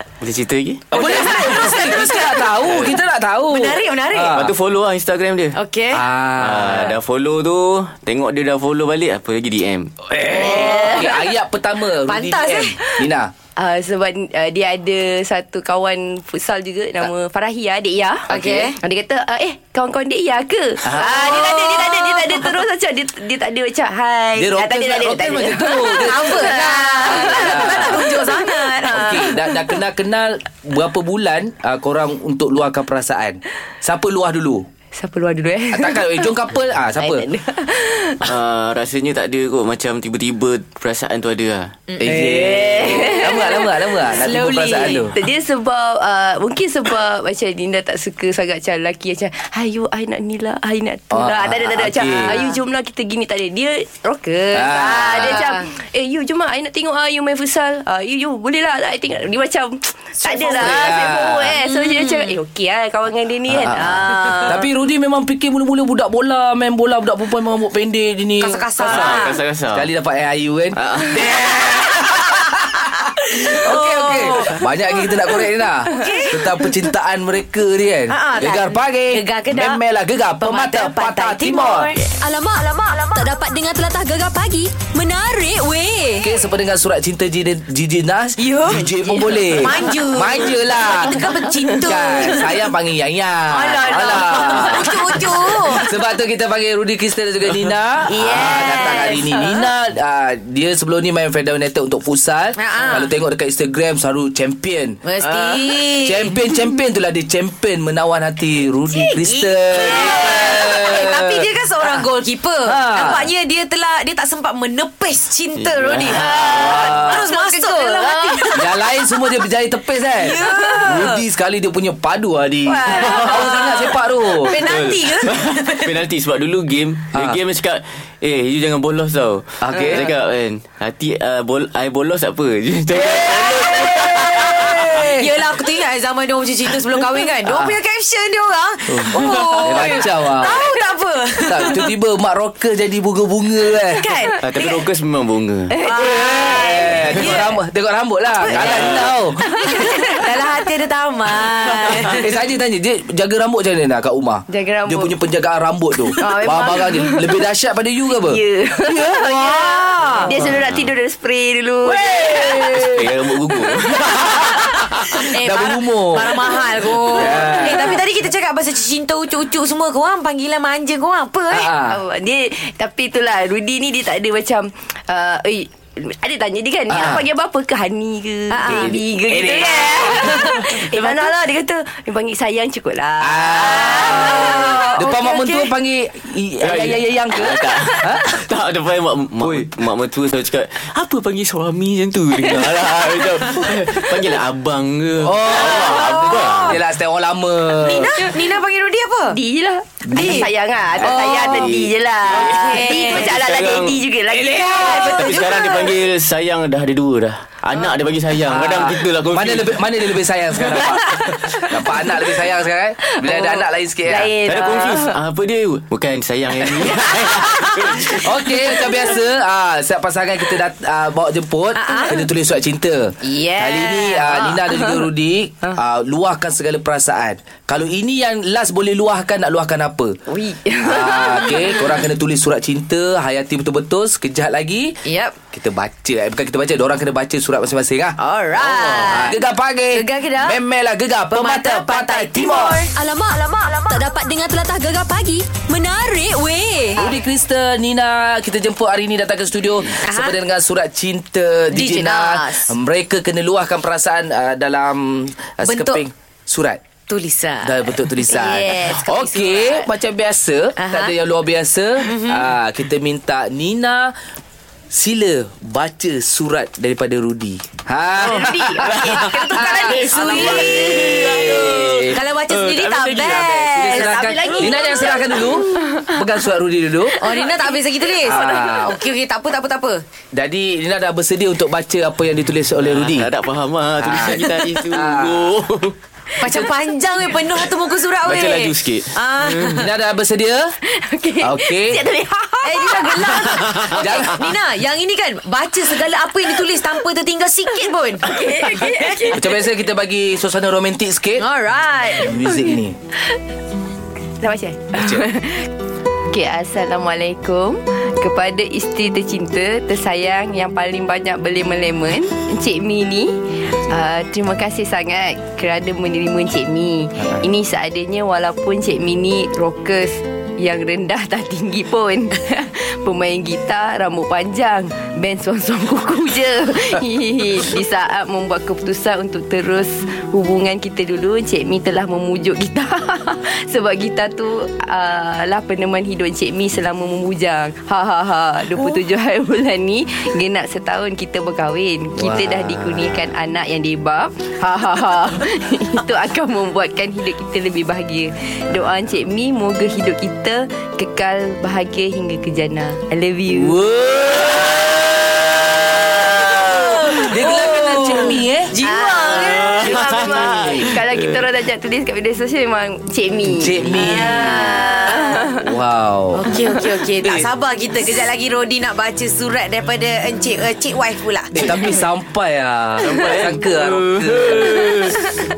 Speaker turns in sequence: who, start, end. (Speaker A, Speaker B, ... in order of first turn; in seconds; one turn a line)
Speaker A: 0.2-0.9
Speaker B: 0.9-2.8
Speaker C: 0.9-4.5
Speaker B: 3.5-4.4
Speaker A: 4.3-5.6
Speaker B: 5.5-6.0
Speaker C: 5.9-7.0
Speaker A: 6.4-9.9
Speaker C: 10.1-13.3
Speaker B: 10.3-11.1
Speaker D: 10.3-11.2
Speaker B: 12.1-12.8
Speaker D: 13.6-29.6
Speaker C: 18.3-18.7
Speaker B: 18.3-18.8
Speaker C: 20.8-21.5
Speaker B: 21.0-22.5
Speaker C: 24.4-28.2
Speaker B: 25.9-29.2
Speaker C: 28.8-34.6
Speaker D: 34.9-36.3
Speaker C: 35.7-37.2
Speaker D: 37.0-38.3
Speaker A: 38.2-41.8
Speaker B: 41.9-43.5
Speaker C: 42.0-45.1
Speaker D: 42.0-43.7
Speaker B: 44.1-45.1
Speaker D: 45.1-64.6
Speaker C: 51.1-52.4
Speaker B: 52.2-52.6
Speaker C: 54.5-55.5
Speaker B: 54.7-55.6
Speaker B: 60.2-60.8
Speaker C: 60.5-61.6
Speaker B: 61.6-62.4
Speaker C: 63.5-63.8
Speaker B: 63.7-64.6
Speaker C: 64.5-81.9
Speaker B: 68.4-69.4
Speaker A: 68.8-69.9
Speaker A: 70.8-71.2
Speaker B: 73.4-76.7
Speaker B: 78.1-79.8
Speaker B: 80.4-82.0
Speaker E: 82.2-86.3
Speaker C: 86.2-91.2
Speaker B: 88.4-92.6
Speaker D: 91.6-91.9
Speaker C: 91.8-95.1
Speaker B: 93.5-95.9
Speaker D: 94.8-95.1
Speaker C: 95.7-105.0
Speaker B: 98.0-99.5
Speaker B: 102.5-103.1
Speaker B: 105.0-106.4
Speaker C: 106.0-112.0
Speaker B: 108.9-119.1
Speaker C: 112.6-113.3
Speaker A: 115.5-116.9
Speaker D: 116.2-116.5
Speaker C: 116.5-117.3
Speaker D: 117.3-118.5
Speaker C: 118.5-124.6
Speaker B: 120.1-121.2
Speaker B: 122.7-126.0
Speaker A: 123.0-123.3
Speaker A: 124.6-135.0
Speaker C: 127.1-127.4
Speaker C: 129.6-130.1
Speaker C: 132.9-135.3
Speaker B: 133.6-133.9
Speaker B: 134.9-141.9
Speaker C: 137.4-137.8
Speaker C: 138.9-140.6
Speaker A: 139.2-139.8
Speaker C: 141.5-144.0
Speaker B: 143.9-144.7
Speaker A: 144.4-145.7
Speaker D: 145.7-147.4
Speaker B: 145.8-147.5
Speaker C: 146.0-149.4
Speaker B: 148.4-152.3
Speaker A: 148.5-149.1
Speaker D: 149.5-150.3
Speaker A: 151.9-152.2
Speaker C: 152.2-159.8
Speaker D: 154.5-155.1
Speaker D: 156.2-157.4
Speaker D: 158.1-163.0
Speaker B: 159.4-160.4
Speaker A: 160.4-160.9
Speaker C: 161.8-163.1
Speaker A: 162.8-164.5
Speaker D: 163.5-164.0
Speaker C: 164.1-166.5
Speaker B: 165.2-171.7
Speaker C: 167.1-168.0
Speaker C: 171.5-172.0
Speaker D: 171.9-185.6
Speaker C: 176.9-177.2
Speaker B: 178.5-179.0
Speaker C: 178.7-180.8
Speaker B: 180.2-181.3
Speaker C: 183.2-188.4
Speaker B: 183.9-184.9
Speaker A: 186.6-196.8
Speaker C: 189.4-189.7
Speaker C: 195.2-198.2
Speaker B: 195.5-196.8
Speaker B: 197.7-199.4
Speaker D: 199.3-205.4
Speaker C: 200.1-200.5
Speaker B: 200.1-200.5
Speaker C: 201.0-201.7
Speaker B: 201.0-201.7
Speaker A: 201.1-204.0
Speaker B: 202.3-203.3
Speaker C: 204.3-205.1
Speaker B: 204.8-205.9
Speaker A: 204.9-209.9
Speaker C: 208.5-214.3
Speaker D: 213.2-215.2
Speaker A: 214.4-218.3
Speaker C: 218.2-230.2
Speaker B: 221.8-222.2
Speaker D: 223.2-225.1
Speaker D: 230.3-231.8
Speaker C: 230.8-235.0
Speaker B: 235.0-235.3
Speaker C: 235.5-242.8
Speaker B: 238.2-240.6
Speaker B: 241.3-242.9
Speaker E: 242.9-247.0
Speaker C: 247.0-256.8
Speaker B: 250.0-250.4
Speaker B: 251.7-252.7
Speaker B: 255.6-256.0
Speaker B: 257.1-259.8
Speaker C: 257.6-264.1
Speaker D: 258.3-259.0
Speaker B: 260.8-261.1
Speaker B: 262.0-262.5
Speaker C: 264.9-272.2
Speaker B: 268.2-271.5
Speaker D: 268.4-271.4
Speaker A: 268.8-273.8
Speaker B: 272.1-275.5
Speaker C: 273.4-277.2
Speaker D: 274.0-276.1
Speaker B: 277.2-280.0
Speaker D: 277.2-277.7
Speaker C: 278.2-279.0
Speaker C: 280.3-283.3
Speaker A: 282.8-285.9
Speaker C: 284.0-285.6
Speaker B: 286.4-289.8
Speaker A: 288.2-289.8
Speaker C: 289.6-290.7
Speaker D: 290.9-293.6
Speaker C: 291.4-292.0
Speaker B: 292.6-299.3
Speaker A: 293.6-294.0
Speaker C: 293.9-294.4
Speaker D: 298.2-299.6
Speaker C: 299.3-301.4
Speaker B: 301.4-302.5
Speaker C: 302.1-302.9
Speaker D: 304.4-305.7
Speaker C: 304.9-305.2
Speaker D: 306.3-353.8
Speaker C: 342.2-343.3
Speaker C: 353.5-358.7
Speaker B: 356.6-360.1
Speaker D: 357.9-358.3
Speaker D: 358.8-365.6
Speaker A: 359.4-361.4
Speaker C: 360.6-360.9
Speaker C: 363.5-364.8
Speaker B: 363.9-365.5
Speaker C: 365.6-366.5
Speaker B: 366.3-372.0
Speaker C: 367.2-367.5
Speaker C: 371.5-375.1
Speaker A: 373.0-375.3